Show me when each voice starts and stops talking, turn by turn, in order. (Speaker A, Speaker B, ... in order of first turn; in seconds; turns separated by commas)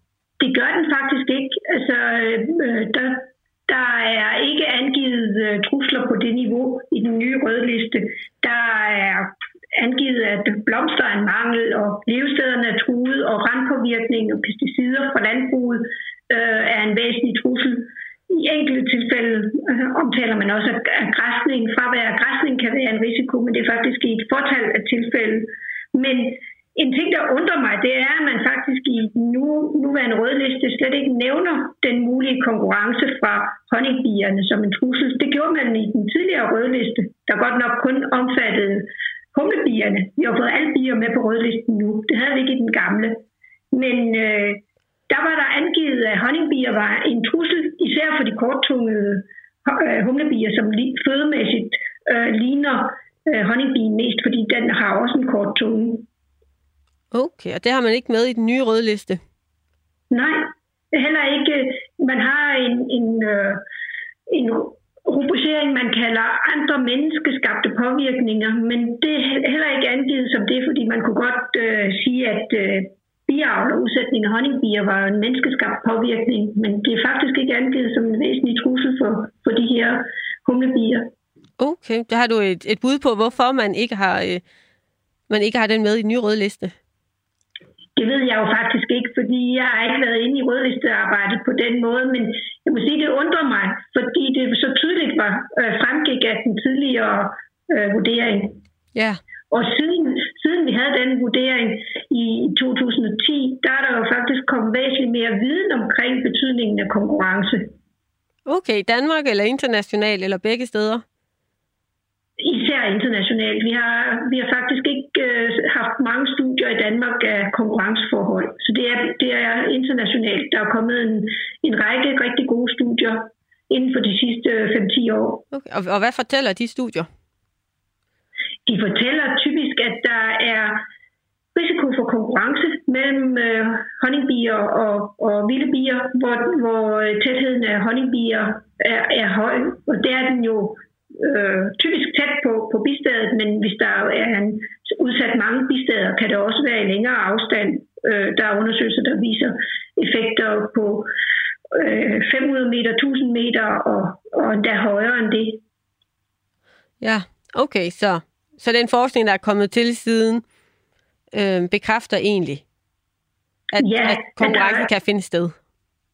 Speaker A: 0.4-56.1, Speaker B: 57.1-59.2, Speaker A: 60.1-63.6, Speaker A: 64.3-81.1, Speaker B: 81.6-84.4, Speaker B: 85.3-86.8, Speaker A: 88.0-98.6, Speaker A: 99.5-107.7, Speaker B: 108.5-111.0, Speaker A: 112.4-125.4, Speaker B: 125.5-127.1, Speaker A: 128.7-130.8, Speaker A: 131.6-151.1, Speaker A: 151.7-155.6, Speaker B: 157.0-160.4, Speaker B: 161.3-162.6, Speaker B: 163.7-165.6, Speaker A: 163.8-164.9